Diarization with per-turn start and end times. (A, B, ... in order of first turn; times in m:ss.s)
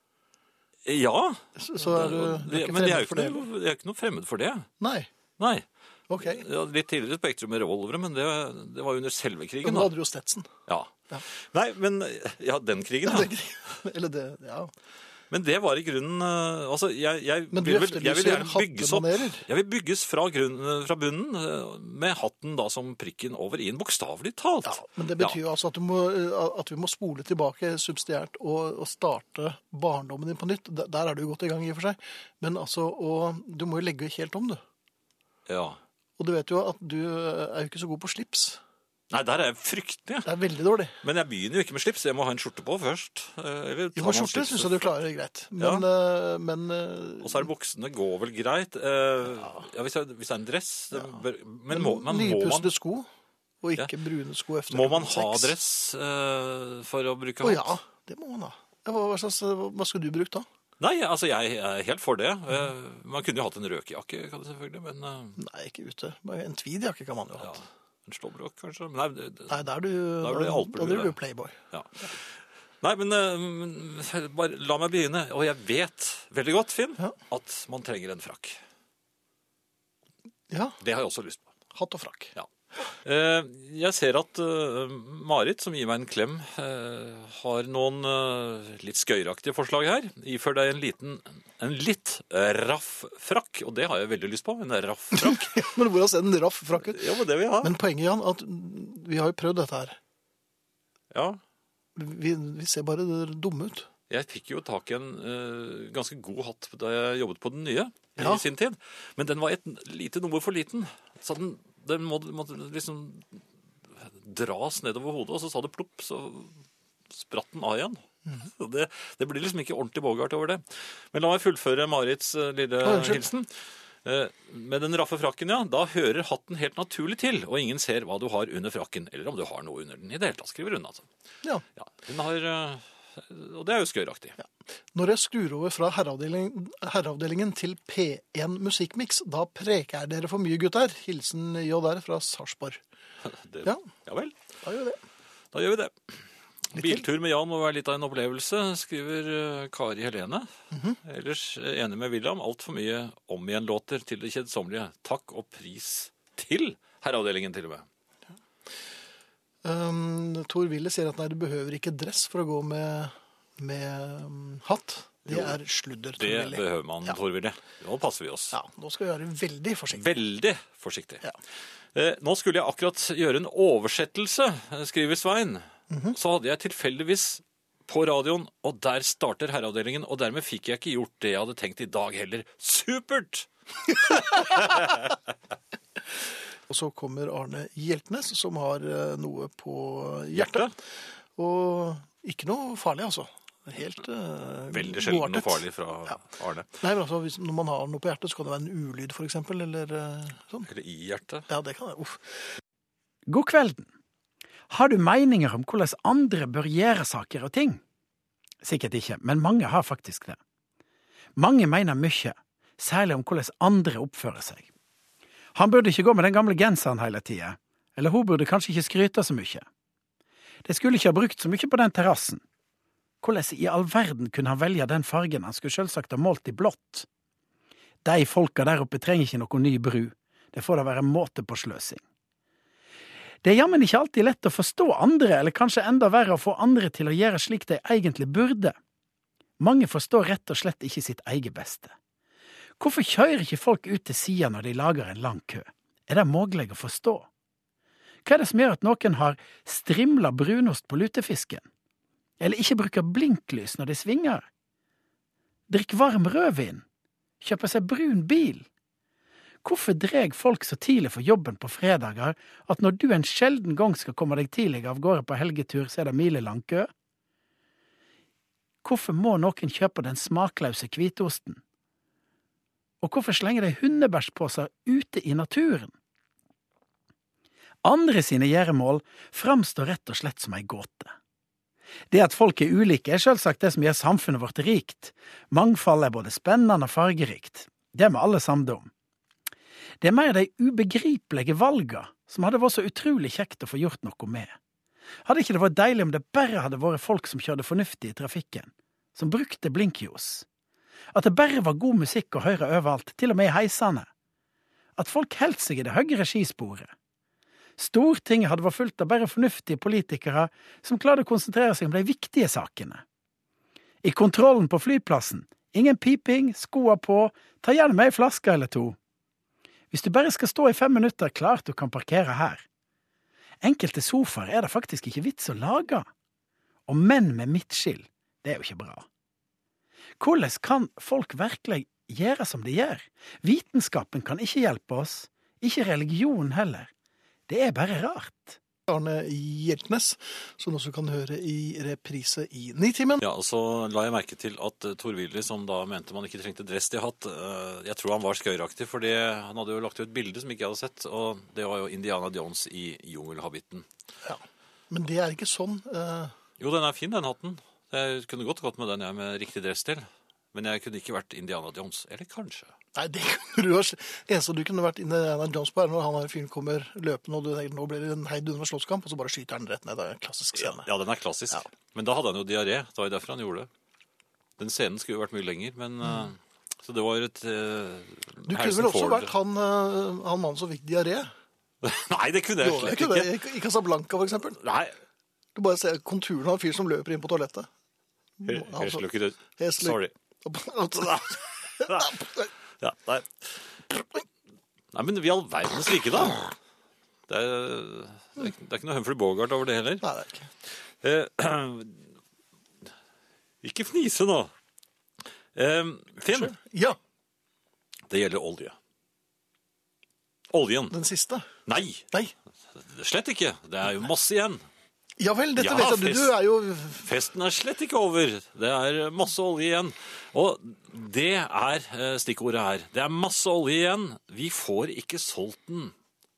0:00.8-0:04.7 A
0:01.6-0:03.4 B
0:04.8-0:05.1 B
0:05.4-0:05.7 A
0:06.1-0:06.4 B
0:06.2-0:09.9 A
0:09.6-0:10.5 B
0:10.7-0:13.3 A
0:13.0-0:14.7 B
0:15.3-0:25.4 A
0:17.5-0:19.4 B
0:24.6-0:34.6 B
0:35.5-0:35.8 A
0:36.2-0:38.6 B
0:39.1-0:40.3 A
0:40.2-0:41.0 B
0:41.0-0:44.8 A
0:44.0-0:47.4 B
0:45.6-0:45.8 A
0:47.2-0:52.7 A
0:51.7-0:53.1 B
0:53.6-0:55.5 B
0:54.7-0:57.7 A
0:57.4-1:00.4 B
1:00.8-1:05.4 A
1:05.4-1:07.6 B
1:07.4-1:09.6 A
1:09.5-1:11.6 B
1:10.2-1:11.1 A
1:11.7-1:18.6 A
1:20.5-1:20.8 B
1:20.8-1:21.5 A
1:21.7-1:22.3 B
1:23.0-1:35.7 A
1:35.1-1:40.0 B
1:36.8-1:37.7 A
1:41.1-1:41.4 A
1:42.0-1:43.9 B
1:44.1-2:11.1 A
1:48.2-1:48.4 B
2:02.8-2:03.3 B
2:11.7-2:14.4 A
2:14.9-2:22.8 B
2:23.2-2:24.4 A
2:24.6-2:25.0 B
2:25.5-2:30.5 A
2:26.7-2:27.0 B
2:30.7-2:31.0 B
2:31.0-2:37.9 A
2:39.6-2:47.2 B
2:45.3-2:45.6 A
2:46.2-2:48.6 A
2:48.5-2:50.0 B
2:49.9-2:51.2 A
2:51.9-3:05.1 A
2:55.9-2:56.2 B
3:06.7-3:10.7 B
3:10.3-3:10.7 A
3:11.4-3:16.1 B
3:14.7-3:16.7 A
3:16.8-3:20.7 B
3:20.7-3:21.5 A
3:21.5-3:22.2 B
3:23.3-3:23.9 C
3:24.7-3:27.8 C
3:28.6-3:30.4 C
3:31.4-3:34.7 C
3:35.6-3:39.6 C
3:40.6-3:42.4 C
3:43.2-3:47.1 C
3:48.0-3:52.0 C
3:53.4-3:58.8 C
3:59.6-4:01.9 C
4:02.8-4:07.3 C
4:08.2-4:11.7 C
4:12.4-4:14.5 C
4:15.7-4:16.8 C
4:17.4-4:18.7 C
4:19.6-4:26.9 C
4:28.8-4:31.6 C
4:33.0-4:35.9 C
4:37.8-4:41.1 C
4:42.1-4:48.9 C
4:50.0-4:54.6 C
4:55.3-5:00.4 C
5:01.1-5:04.1 C
5:05.0-5:06.9 C
5:07.8-5:13.0 C
5:14.0-5:19.0 C
5:19.9-5:22.6 C
5:23.6-5:26.1 C
5:26.9-5:29.0 C
5:30.2-5:36.9 C
5:37.5-5:38.6 C
5:38.9-5:43.2 B
5:43.2-5:53.9 A
5:54.2-5:56.3 B
5:56.6-6:02.7 A
6:03.0-6:10.9 B
6:10.6-6:13.7 A
6:14.6-6:19.3 A
6:18.4-6:21.3 B
6:21.8-6:23.3 A
6:22.6-6:24.6 B
6:24.6-6:25.0 A
6:25.6-6:27.7 B
6:28.4-6:32.5 B
6:28.4-6:30.1 A
6:31.1-6:32.2 A
6:32.8-6:33.7 A
6:34.9-6:36.5 A
6:37.3-6:40.0 A
6:40.0-6:40.5 B
6:41.0-6:42.1 A
6:43.6-6:44.5 A
6:45.6-6:46.6 A
6:46.3-6:47.0 B
6:48.1-6:48.8 A
6:50.5-6:51.0 A
6:50.9-6:51.5 B
6:51.7-6:52.1 A
6:52.7-6:54.6 A
6:55.2-6:57.1 B
6:55.6-6:56.4 A
6:57.0-7:06.0 A